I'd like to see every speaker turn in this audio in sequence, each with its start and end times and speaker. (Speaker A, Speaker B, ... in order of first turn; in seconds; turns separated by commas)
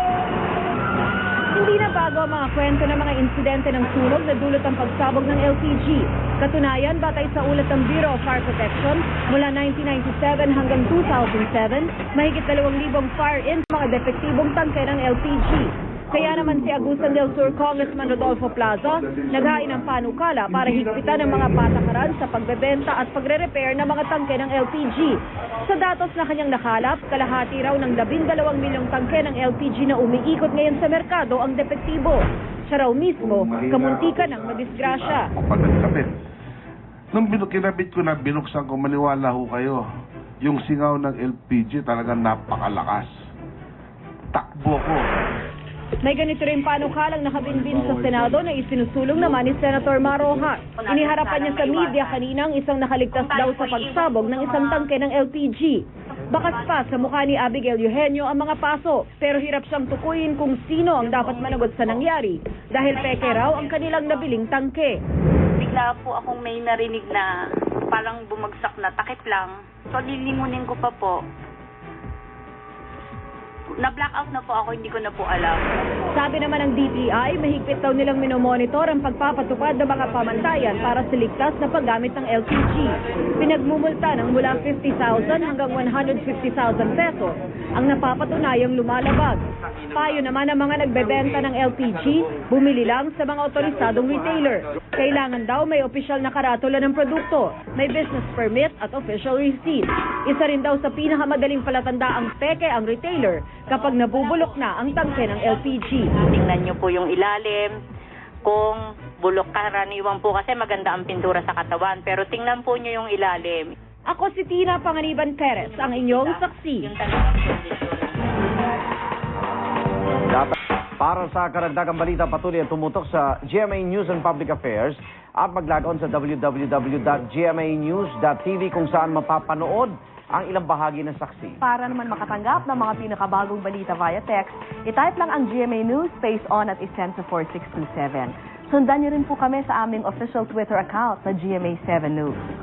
Speaker A: 1.5-35.3, Speaker B: 16.1-21.5, Speaker B: 33.2-36.1, Speaker B: 37.1-39.9, Speaker B: 40.4-43.1, Speaker B: 44.3-45.1, Speaker A: 46.0-65.0, Speaker C: 50.8-52.2, Speaker C: 53.2-54.9, Speaker C: 61.2-61.9, Speaker C: 62.8-64.3, Speaker C: 65.6-67.3, Speaker C: 67.9-71.2, Speaker C: 73.8-75.6, Speaker A: 76.1-89.4, Speaker A: 89.9-106.1, Speaker C: 106.1-107.7, Speaker C: 108.4-113.7, Speaker A: 114.1-116.9, Speaker C: 115.6-118.8, Speaker D: 120.3-131.6, Speaker E: 131.6-142.4